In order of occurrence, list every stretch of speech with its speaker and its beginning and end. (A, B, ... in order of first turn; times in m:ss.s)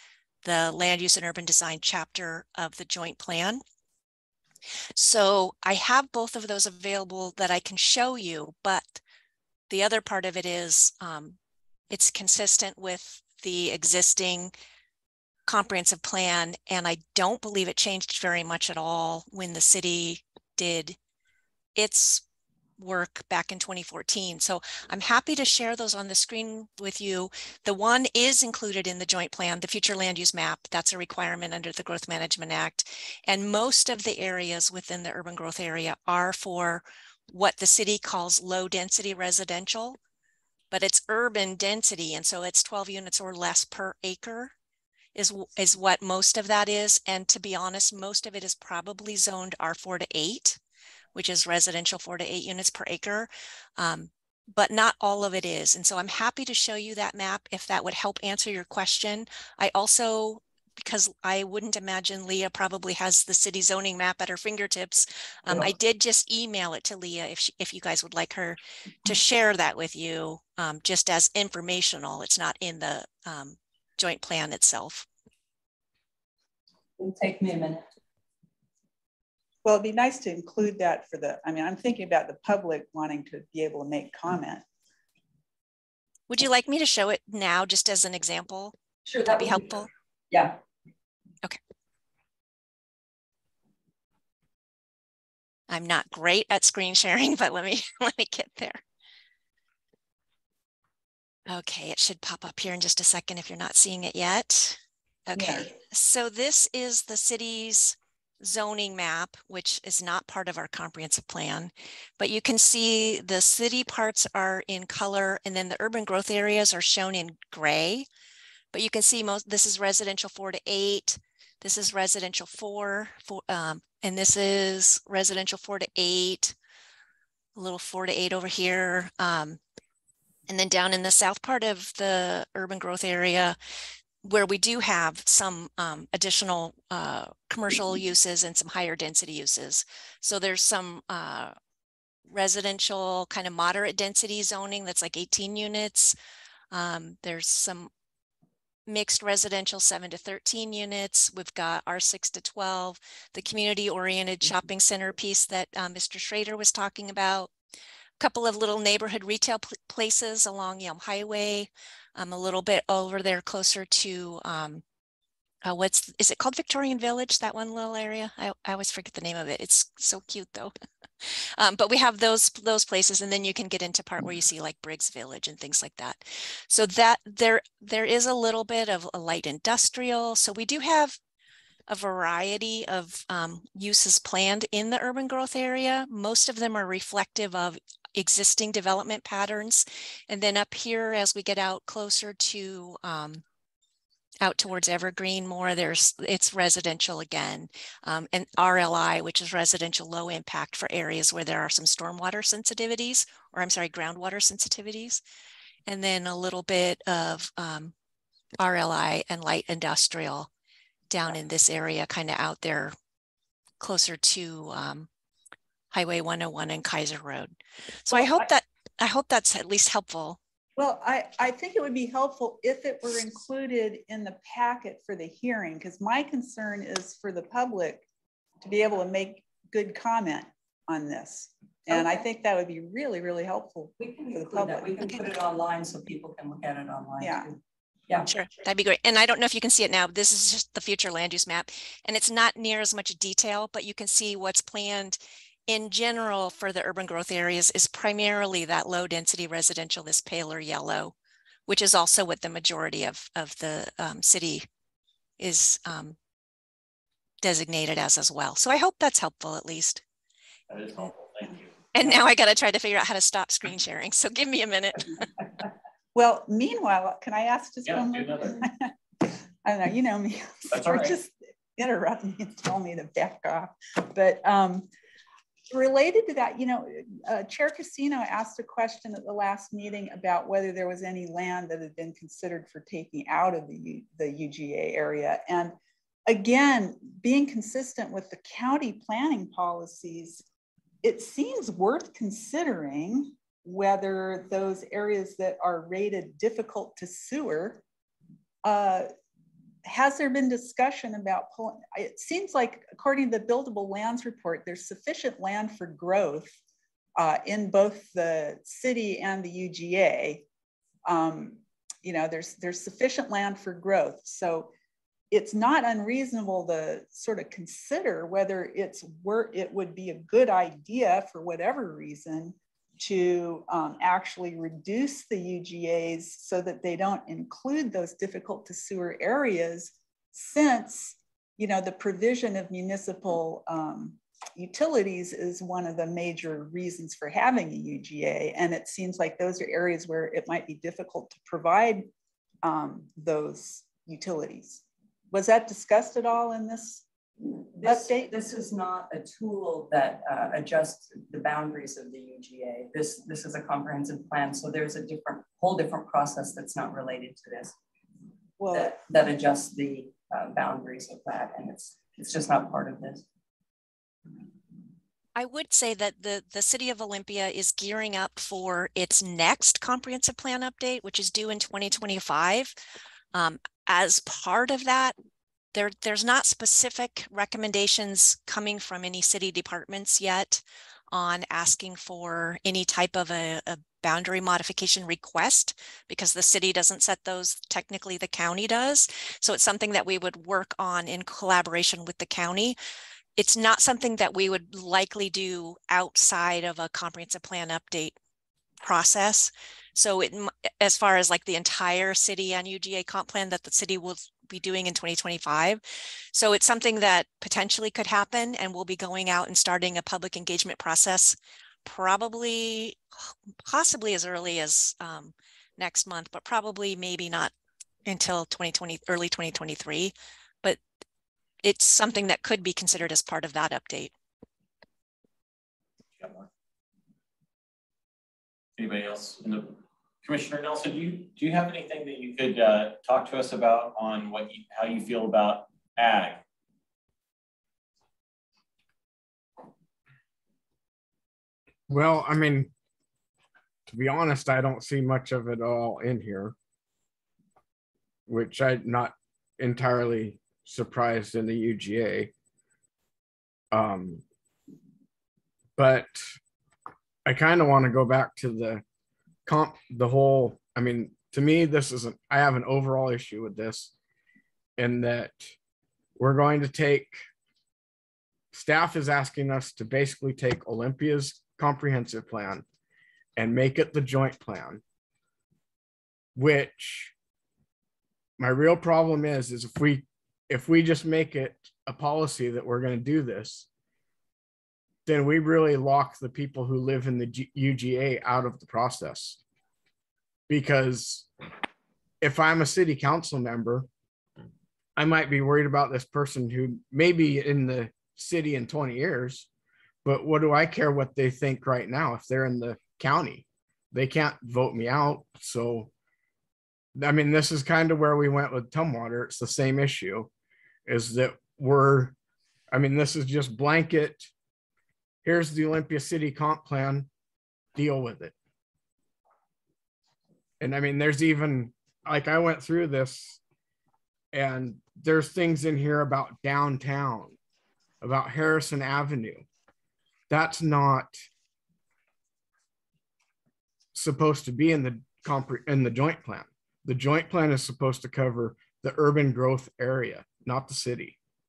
0:00.4-0:03.6 A
0:05.0-0:09.0 A
0:09.7-0:11.4 A
0:11.9-0:14.5 A
0:15.5-0:21.0 A
0:21.8-0:22.2 A
0:22.8-0:40.0 A
0:40.7-0:44.5 A
0:45.2-0:50.6 A
0:51.2-1:15.1 A
1:17.0-1:17.9 B
1:19.6-1:24.6 C
1:26.3-1:28.7 A
1:29.0-1:29.7 B
1:29.3-1:29.9 A
1:30.3-1:30.6 B
1:35.7-1:38.8 A
1:41.5-1:58.1 A
1:45.4-1:45.7 C
1:58.7-2:06.6 A
2:07.6-2:09.6 A
2:10.5-2:13.6 A
2:14.2-2:21.6 A
2:22.3-2:26.2 A
2:26.7-2:27.9 A
2:28.9-2:37.5 A
2:38.2-2:44.8 A
2:45.6-3:01.2 A
3:01.9-3:13.4 A
3:14.4-3:25.2 A
3:25.9-3:27.9 A
3:28.6-3:30.5 A
3:31.1-3:33.0 A
3:33.8-3:35.1 A
3:35.9-3:40.4 A
3:38.1-3:38.5 C
3:40.8-3:48.1 C
3:48.6-3:55.2 C
3:51.9-3:52.2 B
3:54.0-3:57.6 B
3:57.2-3:57.5 C
3:58.3-4:11.1 A
4:11.7-4:14.7 A
4:15.4-4:16.2 A
4:17.4-4:20.0 A
4:20.7-4:21.7 D
4:22.0-4:25.2 A
4:26.2-4:28.9 C
4:27.8-4:28.6 D
4:29.6-4:34.9 C
4:30.7-4:31.2 D
4:35.7-4:45.8 C
4:46.3-4:50.4 C
4:51.0-4:57.8 C
4:58.6-4:59.1 C
4:59.8-5:06.6 C
5:07.2-5:10.4 C
5:11.1-5:14.7 C
5:15.3-5:42.1 C
5:42.6-5:47.0 C
5:47.8-5:57.7 B
5:47.8-5:48.3 C
5:58.6-5:58.9 C
5:58.7-6:03.2 B
6:05.4-6:12.8 A
6:13.3-6:15.2 A
6:15.7-6:32.8 A
6:33.4-6:38.2 A
6:38.8-6:45.8 A
6:46.3-6:57.5 A
6:58.0-7:00.8 A
7:01.6-7:04.1 A
7:06.2-7:06.5 D
7:08.8-7:16.4 D
7:21.9-7:22.7 E
7:23.9-7:26.6 E
7:28.3-7:32.3 E
7:33.7-7:34.2 E
7:35.8-7:36.2 E
7:37.3-7:38.8 E
7:39.5-7:43.9 E
7:44.8-7:45.5 E
7:46.2-7:47.2 E
7:48.5-7:52.6 E
7:53.4-7:54.8 E
7:56.4-7:57.1 E
7:58.4-8:03.7 E
8:05.1-8:09.4 E
8:10.5-8:11.3 E
8:12.2-8:13.9 E
8:15.0-8:19.5 E
8:20.0-8:25.9 E
8:27.0-8:30.3 E
8:30.9-8:32.2 E
8:32.7-8:34.3 E
8:35.2-8:37.1 E
8:37.8-8:38.3 E
8:40.6-8:43.4 E
8:44.3-8:47.4 E
8:48.0-8:49.4 E
8:50.3-8:51.2 E
8:53.9-9:01.2 E